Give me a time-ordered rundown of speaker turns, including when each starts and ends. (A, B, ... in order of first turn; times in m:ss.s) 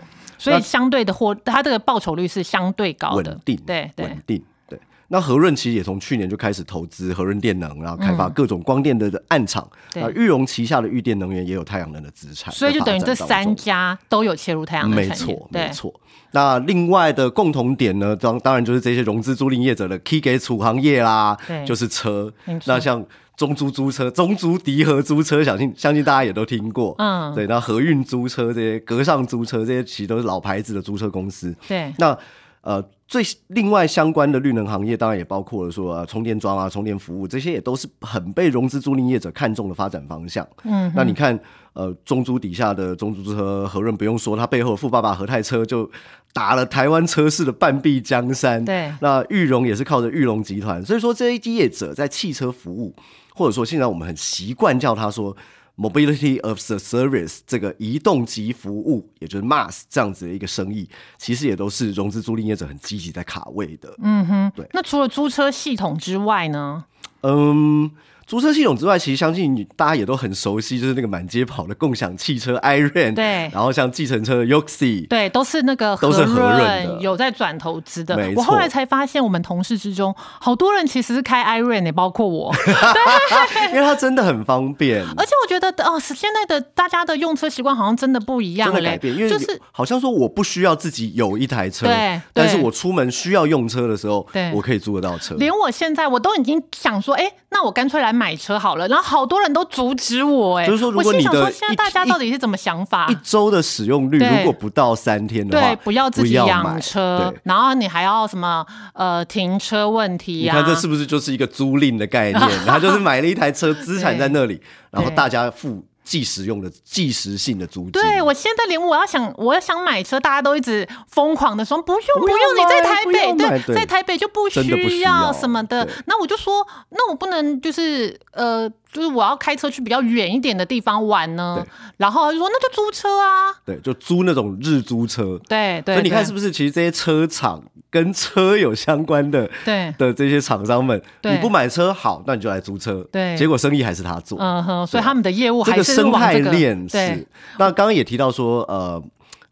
0:00.4-0:04.2 A
0:03.1-0:13.6 B
0:08.0-0:08.4 A
0:12.5-0:15.8 A
0:14.8-1:04.0 B
0:21.5-0:21.7 A
0:22.5-0:22.9 A
0:27.0-0:27.4 A
0:31.7-0:32.0 A
0:40.6-0:41.2 A
0:48.6-0:49.0 A
1:04.0-1:06.8 A
1:07.2-1:15.1 B
1:13.2-1:13.6 A
1:15.1-1:23.8 A
1:16.0-1:17.1 B
1:18.1-1:18.7 B
1:22.6-1:25.3 B
1:25.1-1:29.6 A
1:28.6-1:35.5 B
1:31.8-1:32.7 A
1:34.3-1:34.6 A
1:35.3-1:43.2 A
1:40.6-1:42.2 B
1:43.1-1:47.4 B
1:44.2-1:44.6 A
1:45.5-1:50.8 A
1:50.4-1:58.3 B
1:52.3-1:53.0 A
1:53.9-1:54.4 A
1:55.0-1:55.2 A
1:57.9-2:13.6 A
2:02.1-2:03.9 B
2:04.5-2:06.0 B
2:13.7-2:29.1 B
2:15.5-2:16.3 A
2:19.6-2:20.0 A
2:21.2-2:21.5 A
2:23.1-2:23.5 A
2:24.4-2:27.3 A